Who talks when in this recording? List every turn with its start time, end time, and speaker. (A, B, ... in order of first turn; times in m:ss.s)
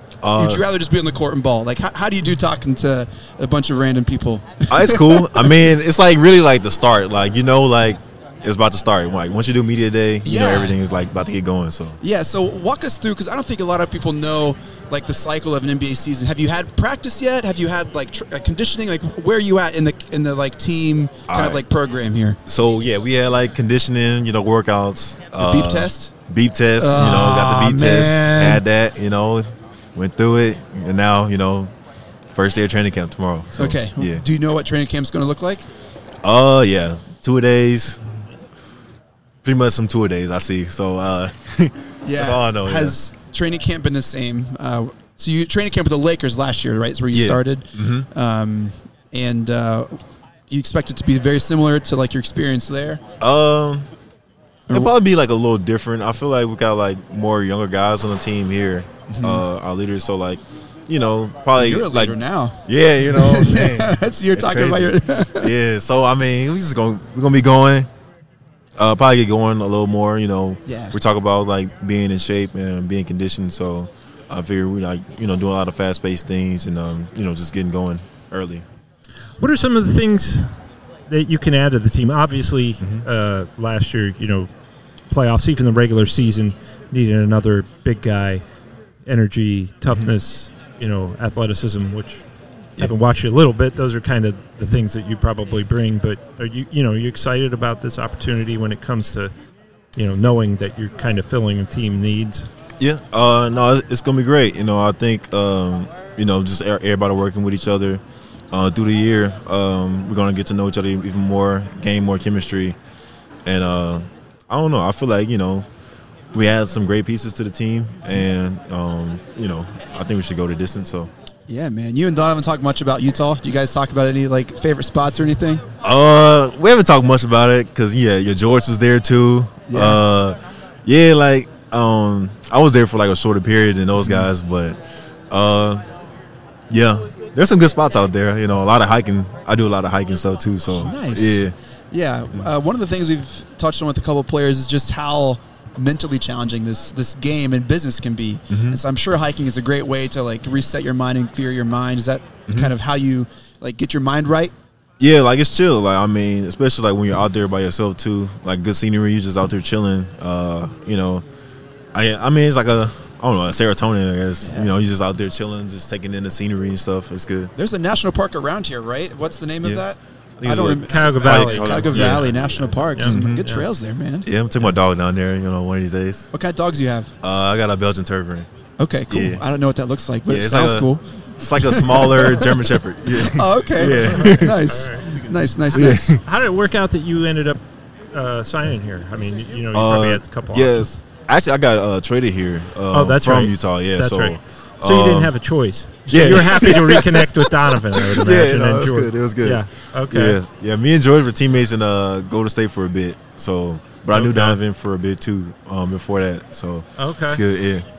0:00.2-0:00.6 A
0:00.3-0:05.5 B
0:04.7-0:12.0 A
0:10.2-0:10.8 B
0:12.0-0:22.4 B
0:21.3-0:21.6 A
0:22.5-0:31.7 A
0:25.4-0:26.1 B
0:26.8-0:28.6 B
0:32.3-0:34.2 A
0:33.6-0:35.7 B
0:36.2-0:38.0 A
0:39.4-0:43.0 A
0:42.0-0:50.0 B
0:47.1-0:48.1 A
0:50.5-0:53.0 B
0:53.2-0:53.9 A
0:54.7-1:07.9 A
0:59.1-0:59.4 B
1:01.6-1:05.5 B
1:08.8-1:18.7 A
1:10.6-1:11.0 B
1:19.4-1:20.5 C
1:21.1-1:24.5 C
1:22.8-1:23.1 A
1:25.1-1:28.4 C
1:29.0-1:32.2 C
1:32.8-1:39.3 C
1:40.0-1:42.5 C
1:42.8-1:52.8 A
1:53.4-1:55.7 A
1:56.3-2:01.1 A
2:01.5-2:05.6 B
2:05.8-2:14.8 A
2:09.7-2:10.0 B
2:14.0-2:14.3 B
2:15.3-2:15.9 A
2:16.7-2:21.5 A
2:20.8-2:34.5 B
2:28.5-2:28.8 A
2:32.5-2:32.7 A
2:35.0-2:41.2 A
2:41.9-2:47.5 A
2:44.4-2:44.7 B
2:47.6-2:54.3 B
2:50.4-2:52.3 A
2:50.9-2:53.7 C
2:53.0-2:53.4 A
2:54.2-2:56.3 A
2:56.3-2:57.1 B
2:57.2-2:58.5 A
2:58.8-3:02.6 B
2:59.1-2:59.4 A
3:00.3-3:04.6 A
3:03.1-3:06.2 B
3:03.9-3:05.3 C
3:05.7-3:06.2 A
3:06.0-3:07.6 C
3:08.1-3:10.9 C
3:09.7-3:15.3 A
3:12.9-3:20.4 C
3:16.1-3:27.9 A
3:24.1-3:24.6 C
3:27.0-3:27.4 C